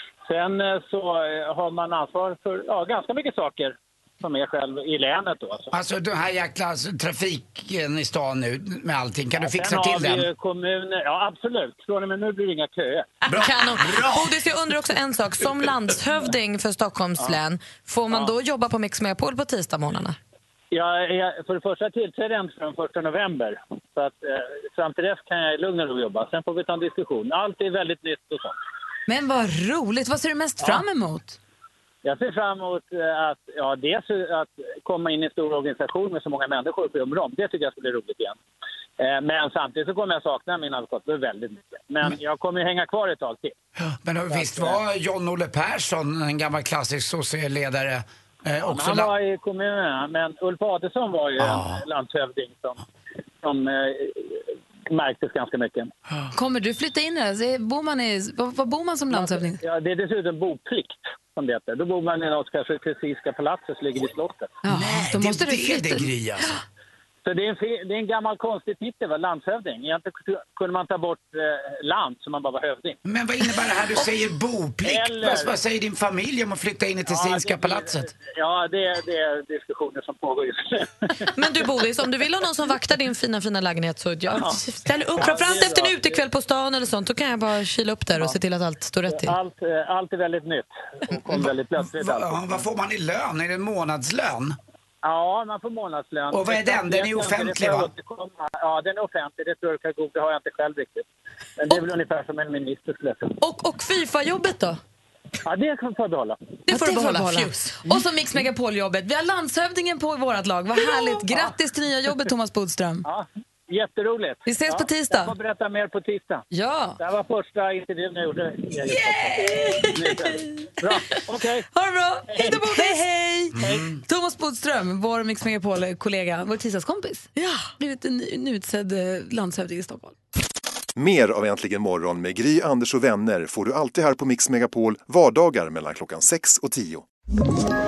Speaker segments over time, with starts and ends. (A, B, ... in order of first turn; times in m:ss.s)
0:00.2-0:05.7 A
0:05.7-0:10.3 B
0:09.4-0:13.1 A
0:13.3-0:20.2 C
0:20.7-0:28.6 A
0:29.1-0:31.4 D
0:32.0-0:38.4 A
0:39.0-0:43.5 A
0:43.8-0:49.1 B
0:44.3-0:44.8 A
0:48.7-0:52.8 A
0:51.4-0:51.8 B
0:53.4-0:55.9 A
0:56.3-0:59.6 D
0:59.1-1:04.6 A
1:04.6-1:06.5 D
1:04.6-1:06.5 B
1:07.2-1:13.0 A
1:13.0-1:18.1 B
1:14.8-1:15.5 A
1:17.1-1:21.3 A
1:21.3-1:29.3 C
1:24.3-1:26.2 A
1:29.1-1:32.6 A
1:31.2-1:34.6 B
1:35.0-1:41.0 A
1:36.3-1:37.9 B
1:41.6-1:43.3 A
1:43.4-1:44.8 C
1:45.4-1:46.4 A
1:46.7-1:53.0 D
1:46.7-1:48.0 C
1:53.0-1:56.4 A
1:54.4-1:55.3 D
1:56.5-1:57.0 D
1:57.0-2:01.7 A
1:58.8-2:00.4 D
2:01.1-2:10.1 D
2:02.3-2:03.0 A
2:03.6-2:03.9 B
2:03.6-2:03.9 A
2:07.4-2:07.6 C
2:11.0-2:17.0 E